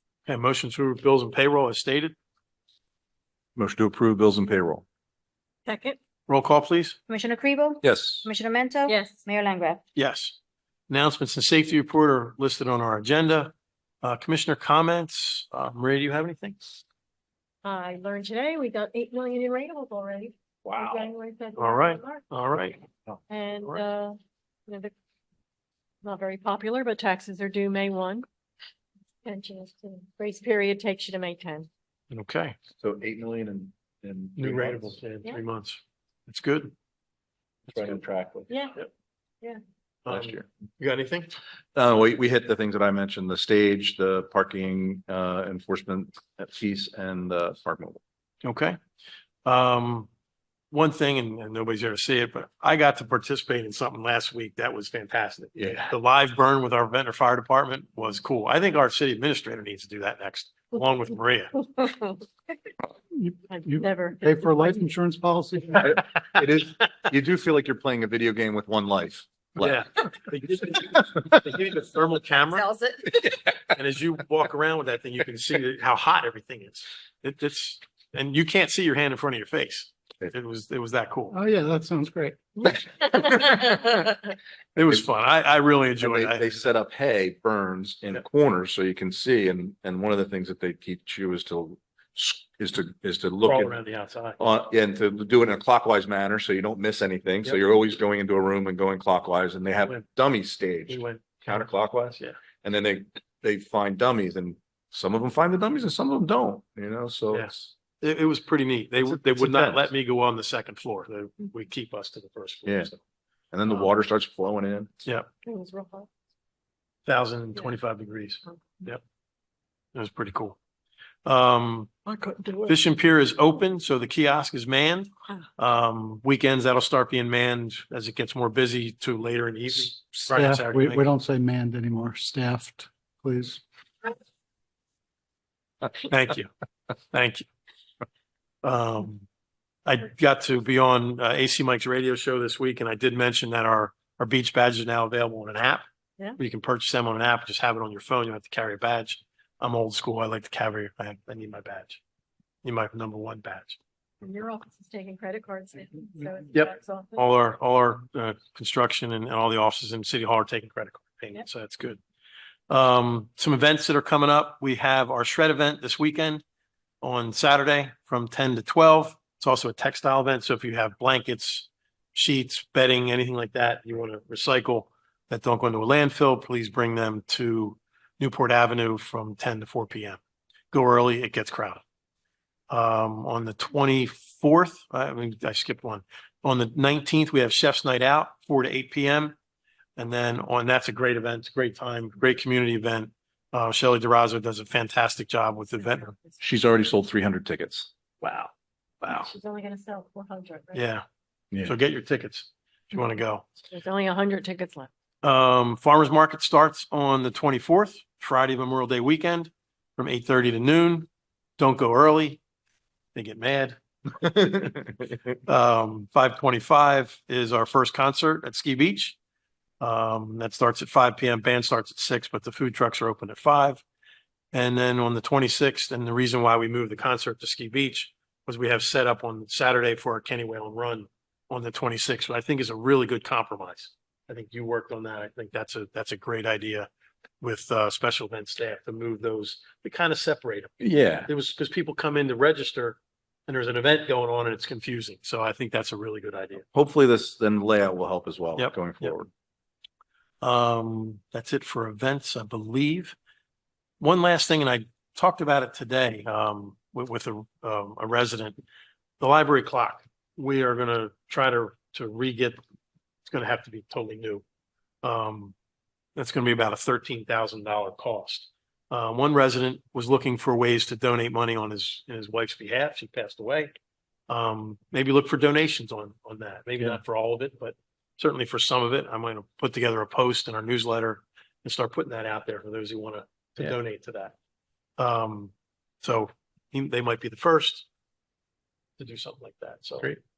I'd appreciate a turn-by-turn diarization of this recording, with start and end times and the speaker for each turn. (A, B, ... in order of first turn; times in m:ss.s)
0:00.3-0:02.2 A
0:03.6-0:04.8 B
0:05.7-0:06.0 C
0:06.3-0:07.0 A
0:07.1-0:09.8 D
0:07.8-0:08.3 B
0:08.9-0:09.2 C
0:10.0-0:10.4 A
0:10.9-0:16.6 A
0:17.6-0:22.2 C
0:20.7-0:22.8 A
0:23.3-0:24.9 C
0:26.0-0:28.3 C
0:29.2-0:31.7 C
0:32.1-0:32.6 A
0:32.8-0:35.0 B
0:34.4-0:36.7 A
0:37.7-0:38.5 B
0:38.5-0:38.8 C
0:40.0-0:41.3 A
0:40.1-0:40.5 B
0:41.8-0:48.0 B
0:48.4-0:48.8 A
0:49.4-0:50.1 A
0:50.7-1:01.6 A
0:55.6-0:55.9 B
1:01.8-1:02.2 C
1:03.1-1:06.0 E
1:03.5-1:04.9 C
1:05.8-1:09.8 B
1:09.6-1:12.7 A
1:12.6-1:13.1 C
1:13.7-1:21.4 A
1:21.3-1:22.8 E
1:23.4-1:24.0 A
1:24.8-1:26.6 A
1:26.0-1:33.8 B
1:33.4-1:34.4 A
1:34.4-1:47.7 B
1:40.9-1:42.4 A
1:47.3-1:53.0 A
1:49.0-1:49.9 B
1:53.5-1:54.9 B
1:53.7-1:53.9 A
1:55.4-1:56.1 C
1:57.1-1:59.0 A
2:00.0-2:00.6 A
2:01.3-2:02.0 A
2:02.1-2:02.8 C
2:02.7-2:11.0 A
2:10.1-2:13.6 E
2:16.1-2:16.5 A
2:17.1-2:17.5 A
2:18.6-2:19.2 A
2:19.9-2:25.8 A
2:26.4-2:32.0 A
2:32.6-2:33.8 A
2:34.2-2:37.3 C
2:36.5-2:42.0 A
2:42.7-2:46.4 A
2:47.0-3:00.2 A
3:00.7-3:01.8 A
3:02.7-3:09.4 A
3:10.0-3:16.2 A
3:16.4-3:17.9 B
3:18.2-3:18.5 A
3:19.0-3:19.3 A
3:19.0-3:20.9 C
3:20.7-3:21.0 A
3:21.6-3:23.5 A
3:23.7-3:24.9 C
3:25.2-3:31.1 A
3:31.6-3:32.4 A
3:33.2-3:34.4 A
3:35.5-3:39.2 A
3:39.8-3:43.8 A
3:44.5-3:56.9 A
3:57.4-4:06.7 A
4:00.8-4:01.3 B
4:06.7-4:09.3 B
4:08.6-4:09.2 A
4:10.4-4:13.2 A
4:14.0-4:18.6 A
4:19.2-4:22.6 A
4:23.3-4:24.4 A
4:25.0-4:25.5 A
4:26.2-4:33.7 A
4:34.3-4:44.3 A
4:45.0-4:47.9 A
4:49.0-4:50.2 A